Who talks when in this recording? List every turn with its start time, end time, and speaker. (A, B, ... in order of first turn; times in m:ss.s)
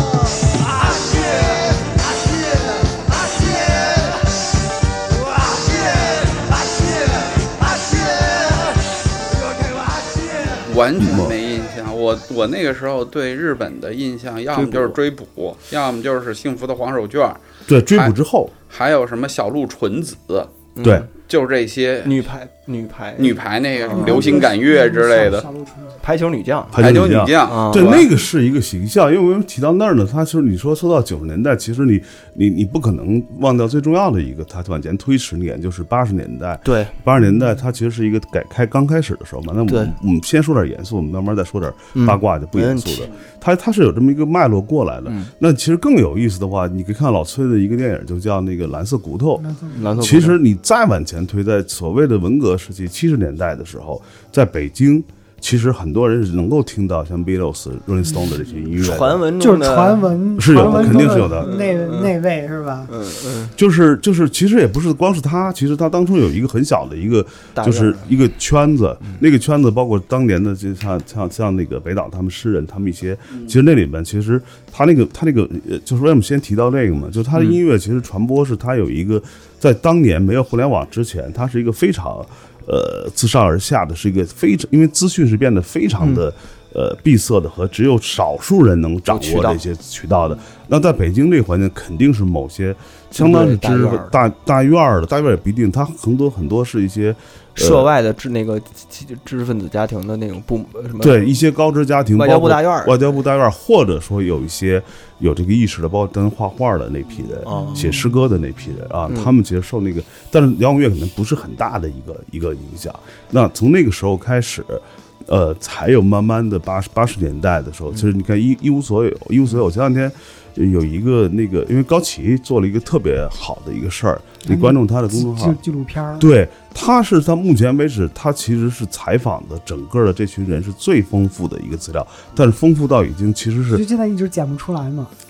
0:00.4-0:04.2 A
0:05.1-0:10.7 A
0:10.7-0:18.2 B
0:11.0-0:11.4 C
0:14.6-0:14.9 D
0:17.7-0:18.5 C
0:18.7-0:20.5 B
0:20.8-0:21.1 D
0:21.2-0:22.3 B
0:22.0-0:24.4 D
0:23.2-0:25.5 B
0:23.9-0:26.0 E
0:26.0-0:26.8 D
0:26.7-0:59.2 C
0:26.8-0:28.1 B
0:27.4-0:28.0 D
0:36.6-0:37.0 D
0:39.7-0:39.9 D
0:41.9-0:43.1 D
0:45.1-0:45.3 D
0:49.4-0:49.9 E
0:49.7-0:50.4 D
0:58.8-1:02.1 D
0:59.4-1:02.9 E
1:00.4-1:01.6 C
1:02.9-1:03.6 D
1:03.6-1:37.9 C
1:07.6-1:08.1 D
1:29.1-1:29.6 D
1:33.2-1:34.1 D
1:37.6-1:41.2 D
1:41.0-2:05.6 C
1:42.2-1:43.0 D
1:47.4-1:48.0 D
1:49.1-1:49.3 D
2:04.5-2:06.3 E
2:06.2-2:13.8 C
2:13.7-2:15.1 E